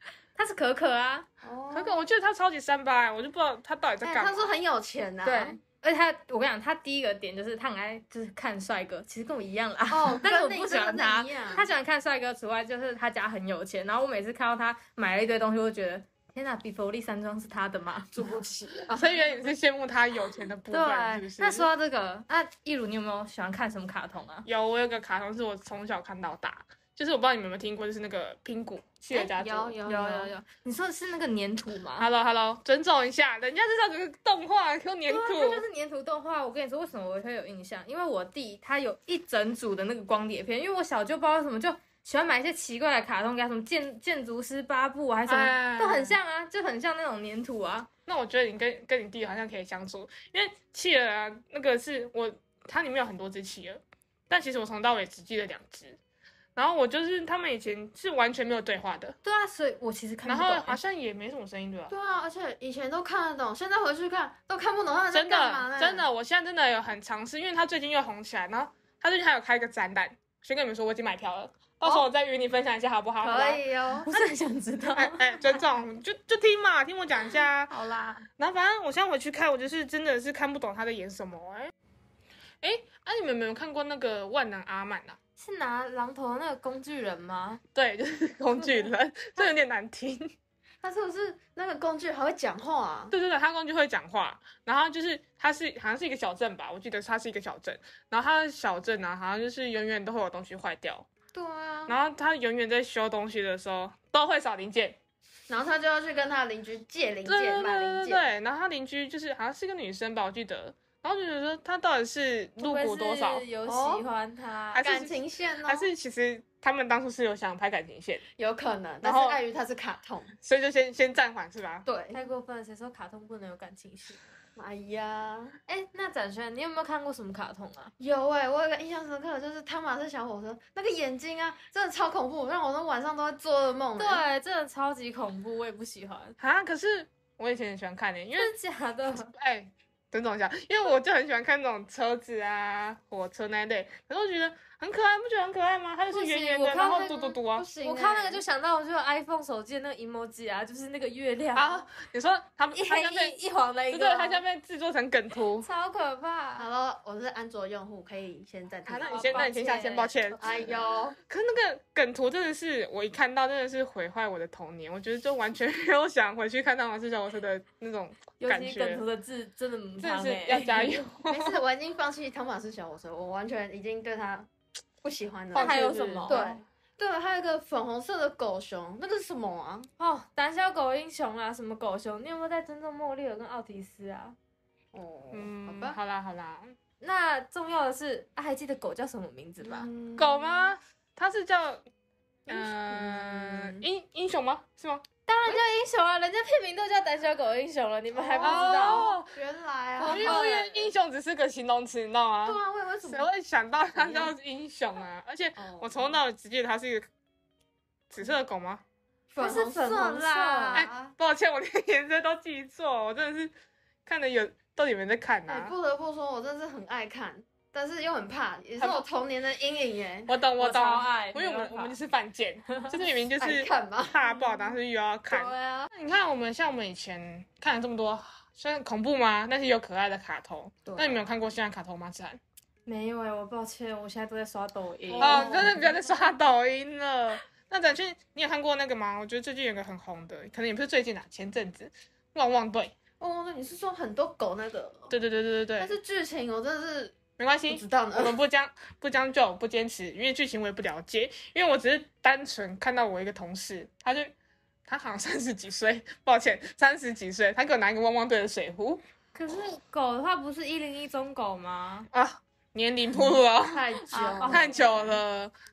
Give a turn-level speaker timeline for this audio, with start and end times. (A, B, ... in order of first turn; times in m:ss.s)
0:00.4-0:01.3 A
0:01.4-0:02.0 B
0:01.7-0:04.5 C
0:04.0-0:05.6 B
0:05.2-0:18.4 A
0:09.9-0:11.7 B
0:18.1-0:19.0 B
0:18.9-0:21.7 C
0:20.7-0:24.5 A
0:24.4-0:29.8 C
0:29.1-0:30.3 B
0:29.8-0:32.0 A
0:32.0-0:35.6 C
0:35.1-0:47.9 A
0:45.3-0:46.2 C
0:48.1-0:56.0 C
0:56.5-0:59.2 C
0:59.2-1:00.8 A
1:00.2-1:01.9 C
1:01.9-1:06.0 B
1:05.1-1:13.6 C
1:13.2-1:14.1 B
1:14.0-1:15.6 A
1:14.9-1:17.8 C
1:17.7-1:18.2 A
1:18.4-1:21.7 C
1:22.6-1:25.2 C
1:25.4-1:27.6 A
1:27.8-1:30.3 C
1:30.8-1:33.1 B
1:33.1-1:41.1 C
1:41.3-1:42.0 B
1:41.9-1:45.0 C
1:45.5-1:48.3 B
1:47.2-1:53.5 C
1:52.6-1:54.8 A
1:53.6-1:54.0 B
1:54.7-1:58.2 C
1:54.8-1:55.9 B
1:58.4-2:00.3 B
1:59.0-1:59.4 C
2:00.4-2:01.9 C
2:01.9-2:02.2 B
2:02.1-2:04.3 A
2:04.6-2:05.6 B
2:05.7-2:07.9 A
2:08.0-2:14.2 B
2:14.0-2:16.4 A
2:16.4-2:18.5 C
2:18.4-2:19.3 A
2:19.3-2:27.7 C
2:26.1-2:27.2 A
2:26.6-2:28.4 B
2:27.8-2:31.9 A
2:31.5-2:33.4 C
2:32.7-2:34.4 A
2:33.9-2:35.6 C
2:35.6-2:36.7 A
2:36.6-2:39.8 B
2:38.9-2:40.4 C
2:39.1-2:40.3 A
2:40.4-2:41.2 B
2:41.2-2:49.0 C
2:48.4-2:51.0 A
2:50.0-2:51.6 C
2:51.3-2:54.5 B
2:55.0-2:59.9 B
2:55.5-2:56.5 A
2:55.5-2:56.6 C
3:00.0-3:04.4 A
3:04.9-3:06.0 B
3:05.3-3:06.8 C
3:07.0-3:09.9 A
3:09.6-3:10.7 B
3:10.2-3:11.8 C
3:12.5-3:13.8 B
3:12.5-3:15.0 C
3:15.3-3:19.1 A
3:18.1-3:20.9 B
3:18.4-3:19.4 C
3:20.0-3:20.7 A
3:20.0-3:27.1 C
3:22.4-3:23.3 B
3:24.0-3:24.3 B
3:25.6-3:26.2 B
3:28.1-3:28.8 C
3:29.3-3:31.1 B
3:29.4-3:30.8 A
3:30.7-3:33.5 C
3:34.0-3:35.7 C
3:35.5-3:40.3 B
3:40.3-3:52.4 C
3:40.6-3:42.0 A
3:43.0-3:44.8 B
3:45.3-3:45.9 B
3:50.8-3:51.2 B
3:52.8-3:55.8 A
3:55.1-3:56.2 B
3:55.2-4:02.9 C
4:03.2-4:05.1 B
4:05.1-4:06.0 C
4:05.8-4:08.4 B
4:07.4-4:14.3 C
4:14.9-4:19.0 C
4:19.3-4:22.1 A
4:22.1-4:25.5 C
4:23.6-4:25.0 B
4:24.1-4:25.0 A